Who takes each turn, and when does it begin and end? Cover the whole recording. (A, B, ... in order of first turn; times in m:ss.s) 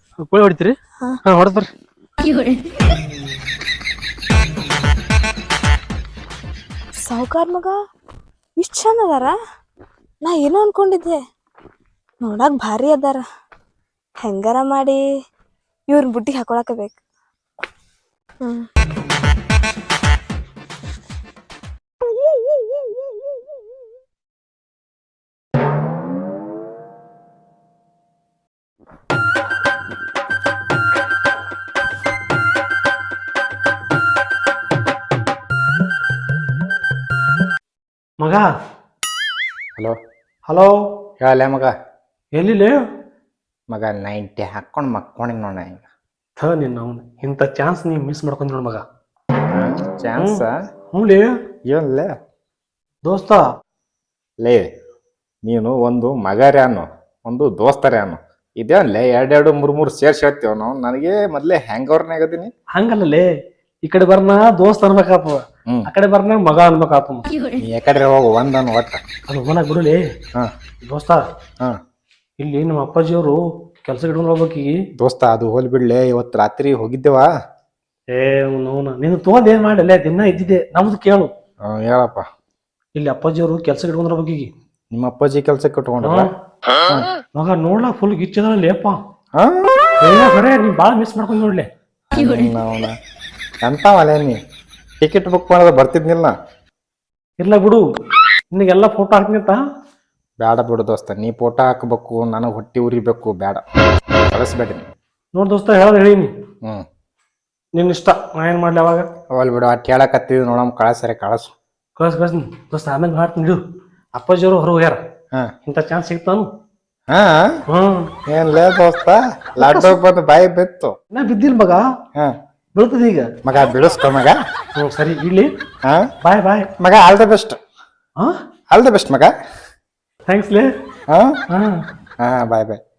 0:00.2-0:00.7 A
0:01.2-0:01.7 A
0:07.1-0:07.7 B
0:08.6-0:09.3 B
0:10.2-0:11.2 B
0:12.2-0:13.2 B
0:14.2-0:15.0 B
0:15.9-0:17.0 B
0:38.2-0:38.5 A
0:40.5-0:40.8 A
0:41.2-0:41.7 C
0:42.4-0:42.8 A
0:43.7-0:45.8 C
0:46.4-0:48.8 A
0:49.5-0:50.6 C
0:50.2-0:51.3 A
0:51.7-0:52.1 C
0:53.0-0:53.4 A
0:54.4-0:54.7 C
0:55.4-1:02.5 C
1:02.8-1:03.2 A
1:03.8-1:07.2 A
1:07.6-1:09.0 C
1:09.3-1:10.0 A
1:10.8-1:11.2 A
1:12.4-1:14.8 A
1:15.0-1:17.3 C
1:18.1-1:21.3 A
1:21.7-1:22.2 C
1:23.0-1:24.5 A
1:24.9-1:26.3 C
1:26.0-1:26.3 A
1:27.4-1:29.0 A
1:29.4-1:29.9 C
1:30.0-1:31.7 A
1:32.1-1:32.9 C
1:33.6-1:34.4 C
1:35.0-1:36.3 C
1:37.4-1:37.8 A
1:38.5-1:39.6 A
1:40.4-1:43.6 C
1:44.3-1:44.8 C
1:45.4-1:46.3 A
1:47.8-1:49.1 A
1:49.3-1:51.5 C
1:52.0-1:53.6 A
1:54.2-1:55.0 A
1:55.7-1:56.5 A
1:57.1-1:57.6 C
1:57.7-1:58.1 A
1:58.2-2:01.0 C
1:59.6-2:00.0 A
2:01.1-2:01.8 A
2:02.8-2:03.3 A
2:03.4-2:04.4 C
2:04.8-2:05.5 A
2:06.2-2:06.7 A
2:06.8-2:07.6 C
2:08.7-2:09.3 C
2:10.3-2:10.7 A
2:11.1-2:11.4 C
2:11.5-2:11.8 A
2:12.2-2:12.8 C